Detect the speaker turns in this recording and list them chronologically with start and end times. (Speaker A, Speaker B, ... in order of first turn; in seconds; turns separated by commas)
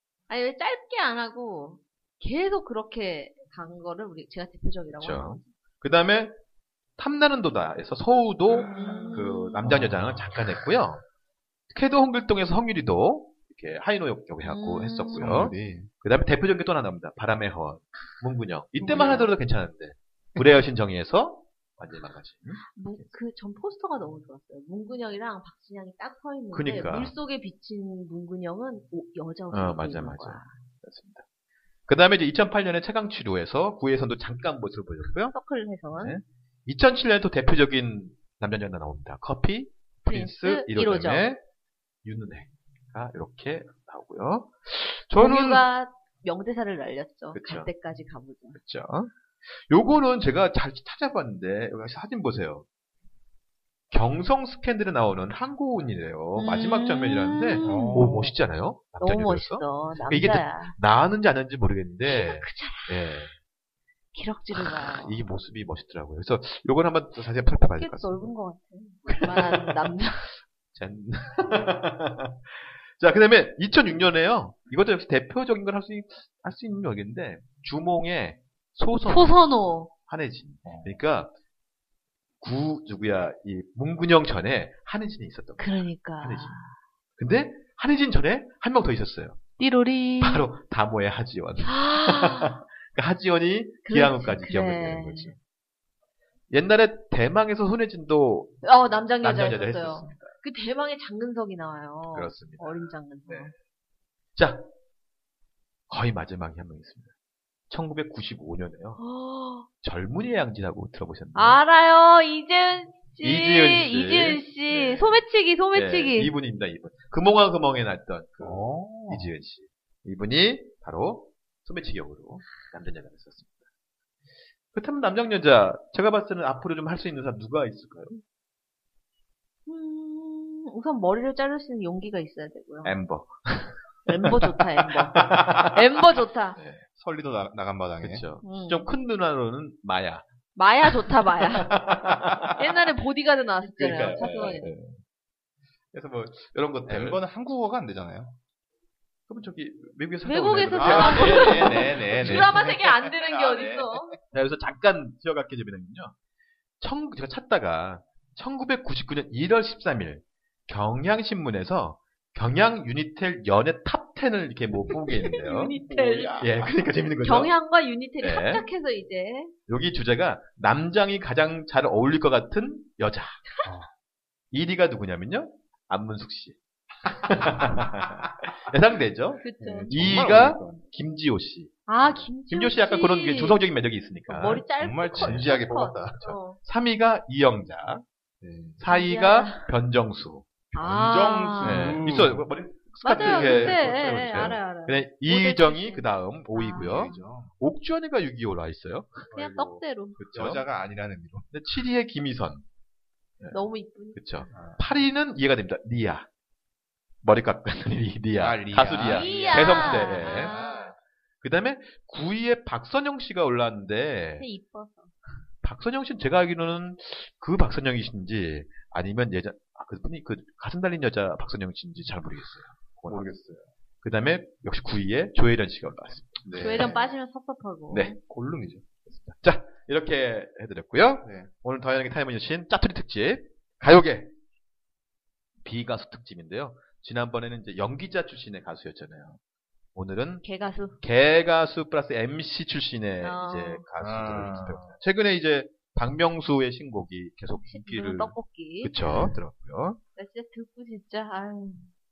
Speaker A: 0.3-5.4, Speaker B: 5.0-6.3, Speaker B: 7.0-11.0, Speaker A: 8.6-9.8, Speaker C: 9.7-10.3, Speaker B: 11.7-23.1, Speaker A: 14.4-15.4, Speaker C: 15.1-15.9, Speaker C: 18.8-19.3, Speaker A: 22.7-30.5, Speaker B: 26.5-27.1, Speaker B: 29.5-31.2, Speaker B: 31.9-35.3, Speaker A: 35.3-36.2, Speaker B: 35.9-41.4, Speaker A: 40.0-41.3, Speaker B: 42.0-45.6, Speaker A: 45.2-48.6, Speaker B: 47.3-47.7, Speaker B: 48.5-52.6, Speaker B: 53.9-63.4, Speaker A: 56.4-58.1, Speaker C: 57.6-58.3, Speaker A: 59.0-60.7, Speaker A: 62.0-63.1, Speaker A: 64.1-65.2, Speaker B: 64.5-68.3, Speaker A: 67.7-70.3, Speaker B: 69.0-69.8, Speaker B: 70.7-79.4, Speaker A: 79.0-79.9, Speaker B: 79.9-81.3, Speaker C: 80.6-80.9, Speaker B: 82.4-86.5, Speaker A: 85.6-86.7, Speaker B: 87.2-89.4, Speaker A: 89.6-90.4, Speaker B: 90.2-95.4, Speaker A: 91.6-92.6, Speaker A: 93.8-95.3, Speaker B: 96.5-98.6, Speaker A: 98.6-103.5, Speaker B: 99.2-100.3, Speaker B: 102.1-102.7, Speaker B: 104.3-104.7, Speaker B: 105.9-107.1, Speaker B: 107.7-109.0, Speaker A: 109.0-109.7, Speaker B: 109.8-111.6, Speaker A: 111.3-116.3, Speaker B: 113.2-123.6, Speaker C: 118.4-119.3, Speaker B: 124.7-128.2, Speaker A: 129.7-132.9, Speaker B: 132.8-135.8, Speaker A: 134.1-136.6, Speaker B: 136.6-136.8, Speaker C: 136.9-138.2, Speaker B: 138.0-140.2, Speaker A: 138.4-138.9, Speaker A: 140.6-141.7, Speaker B: 140.8-142.8, Speaker A: 142.6-144.7, Speaker B: 143.6-145.0, Speaker B: 145.9-147.2, Speaker C: 146.9-148.3, Speaker B: 149.3-152.8, Speaker A: 150.2-154.2, Speaker C: 150.8-154.2, Speaker B: 154.3-156.1, Speaker B: 156.8-165.8, Speaker A: 165.2-166.4, Speaker C: 165.7-166.7, Speaker B: 166.4-167.5, Speaker A: 167.2-169.5, Speaker B: 168.2-168.7, Speaker B: 169.7-173.4, Speaker C: 173.6-173.9, Speaker B: 174.5-181.8, Speaker C: 177.6-178.2, Speaker A: 179.4-179.9, Speaker C: 179.6-180.8, Speaker A: 181.9-183.6, Speaker B: 182.4-185.6, Speaker A: 184.3-186.6, Speaker C: 184.8-186.2, Speaker B: 186.2-188.0, Speaker C: 188.4-188.8, Speaker B: 188.8-190.5, Speaker A: 188.9-189.7, Speaker A: 190.7-192.0, Speaker C: 190.7-192.5, Speaker B: 191.6-199.3, Speaker A: 193.0-197.2, Speaker C: 193.2-194.5, Speaker C: 196.8-197.5, Speaker C: 199.3-199.8, Speaker A: 199.3-200.2, Speaker B: 200.2-200.6, Speaker C: 200.3-201.5, Speaker B: 201.5-202.6, Speaker A: 203.5-204.4, Speaker B: 204.1-206.3, Speaker C: 204.5-204.8, Speaker B: 207.2-210.6, Speaker C: 208.4-210.9, Speaker A: 209.0-210.9, Speaker B: 211.4-214.4, Speaker A: 214.4-215.2, Speaker B: 215.6-223.3, Speaker C: 223.1-223.7, Speaker B: 224.0-226.9, Speaker C: 226.4-227.1, Speaker A: 226.5-228.2, Speaker C: 228.2-228.8, Speaker B: 229.1-234.3, Speaker C: 231.2-231.5, Speaker B: 235.6-239.4, Speaker B: 239.9-240.4, Speaker A: 240.4-241.0, Speaker B: 241.0-250.0, Speaker A: 243.2-243.8, Speaker C: 244.0-244.9, Speaker A: 247.6-248.9, Speaker C: 249.0-249.4, Speaker A: 250.2-251.9